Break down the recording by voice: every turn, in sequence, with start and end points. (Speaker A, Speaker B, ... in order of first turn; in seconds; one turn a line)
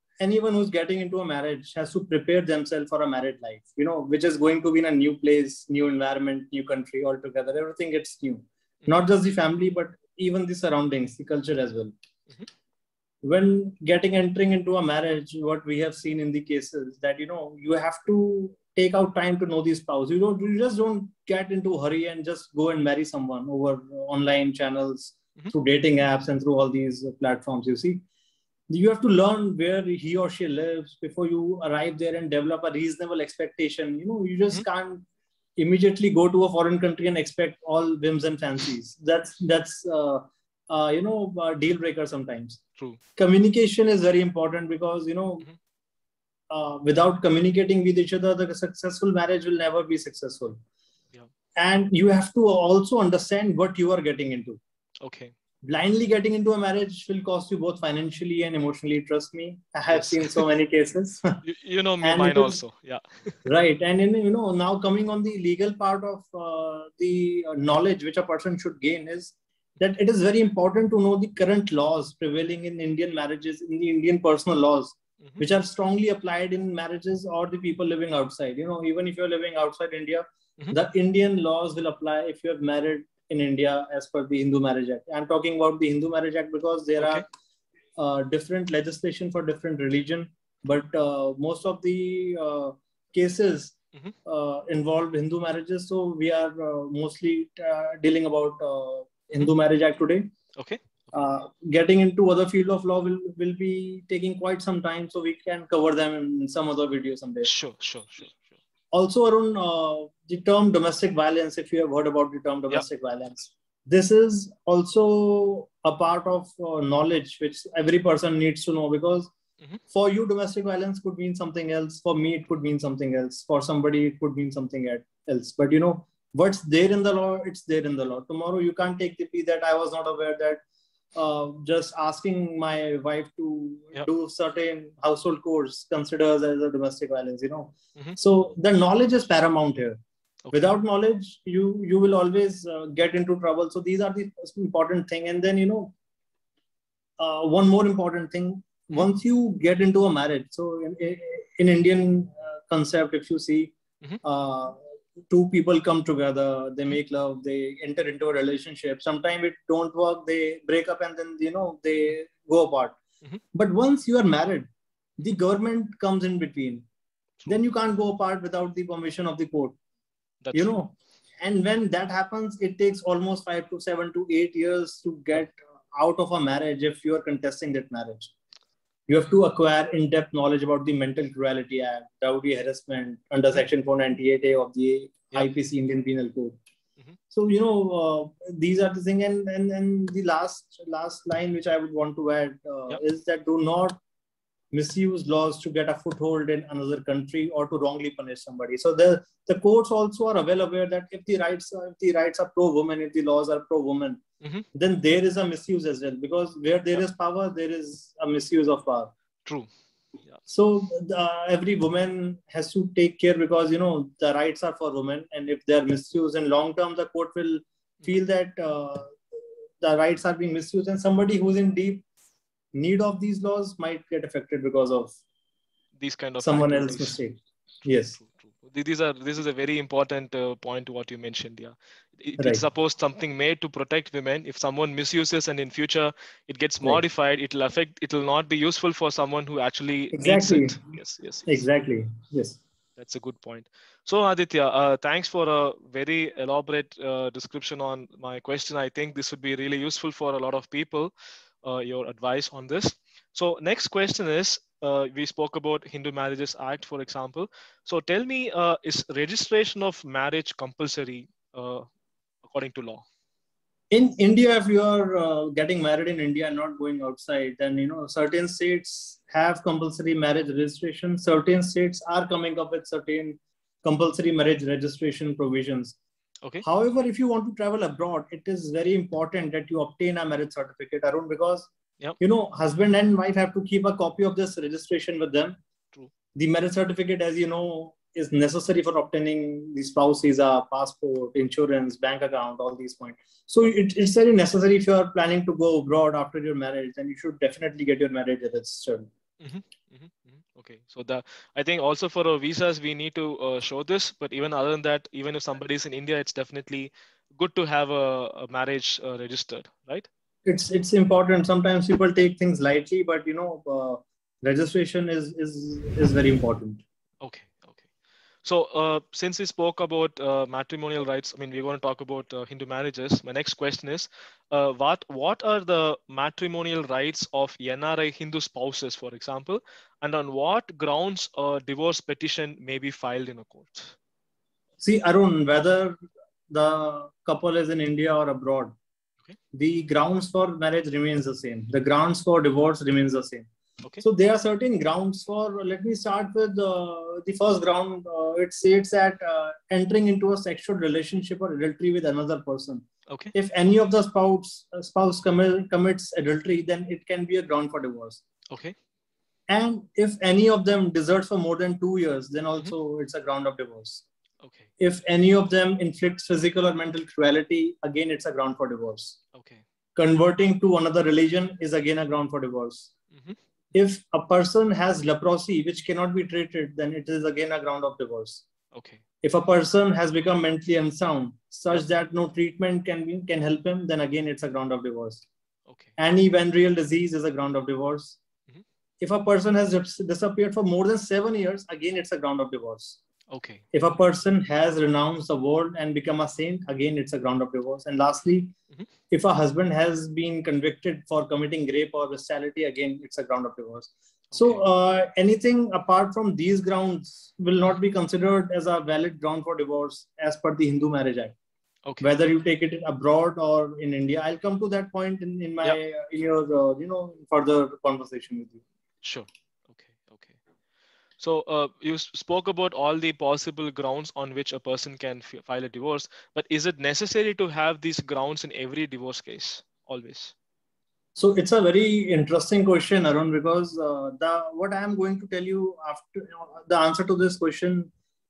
Speaker A: 0.2-11.9
Speaker A: 13.2-28.0
Speaker A: 28.7-35.1
Speaker A: 35.6-42.6
Speaker A: 43.2-45.5
Speaker A: 46.5-50.6
Speaker A: 51.6-54.6
Speaker B: 55.0-55.3
Speaker A: 55.6-61.4
Speaker B: 59.9-60.5
Speaker B: 61.4-63.4
Speaker A: 62.0-62.6
Speaker A: 63.5-87.2
Speaker B: 87.0-87.2
Speaker A: 88.0-100.3
Speaker B: 100.6-100.9
Speaker A: 101.1-107.5
Speaker B: 107.4-108.4
Speaker A: 108.9-119.3
Speaker A: 119.9-130.6
Speaker A: 131.1-140.0
Speaker A: 140.5-145.9
Speaker A: 147.2-163.0
Speaker A: 163.5-166.9
Speaker A: 167.5-169.8
Speaker B: 170.4-170.8
Speaker A: 170.5-178.3
Speaker A: 179.1-186.6
Speaker A: 187.3-194.0
Speaker A: 194.7-204.2
Speaker A: 204.8-209.1
Speaker A: 210.5-219.2
Speaker A: 219.8-222.1
Speaker A: 222.7-225.2
Speaker B: 226.0-227.2
Speaker A: 226.4-228.2
Speaker B: 228.2-241.6
Speaker A: 240.1-240.8
Speaker A: 241.5-242.6
Speaker B: 243.0-251.1
Speaker B: 251.6-261.9
Speaker B: 262.4-263.1
Speaker A: 263.9-276.0
Speaker A: 276.6-281.7
Speaker A: 282.2-285.6
Speaker A: 286.4-299.1
Speaker B: 299.4-310.1
Speaker A: 310.4-316.8
Speaker B: 317.2-317.8
Speaker B: 318.4-333.9
Speaker A: 334.8-336.0
Speaker A: 336.5-338.7
Speaker A: 339.5-343.5
Speaker A: 344.0-358.2
Speaker B: 353.1-353.3
Speaker B: 358.5-358.8
Speaker A: 359.5-364.0
Speaker B: 364.4-364.7
Speaker A: 364.8-369.2
Speaker B: 369.3-369.6
Speaker A: 370.0-372.9
Speaker B: 373.1-373.4
Speaker A: 373.7-378.4
Speaker B: 378.7-379.0
Speaker A: 379.2-385.2
Speaker B: 385.7-385.9
Speaker A: 386.0-388.2
Speaker A: 389.0-393.0
Speaker B: 393.3-393.7
Speaker A: 393.7-398.6
Speaker A: 399.1-411.4
Speaker B: 404.3-404.6
Speaker B: 411.9-412.1
Speaker A: 412.0-418.6
Speaker B: 419.0-420.3
Speaker B: 421.2-430.3
Speaker A: 431.2-437.9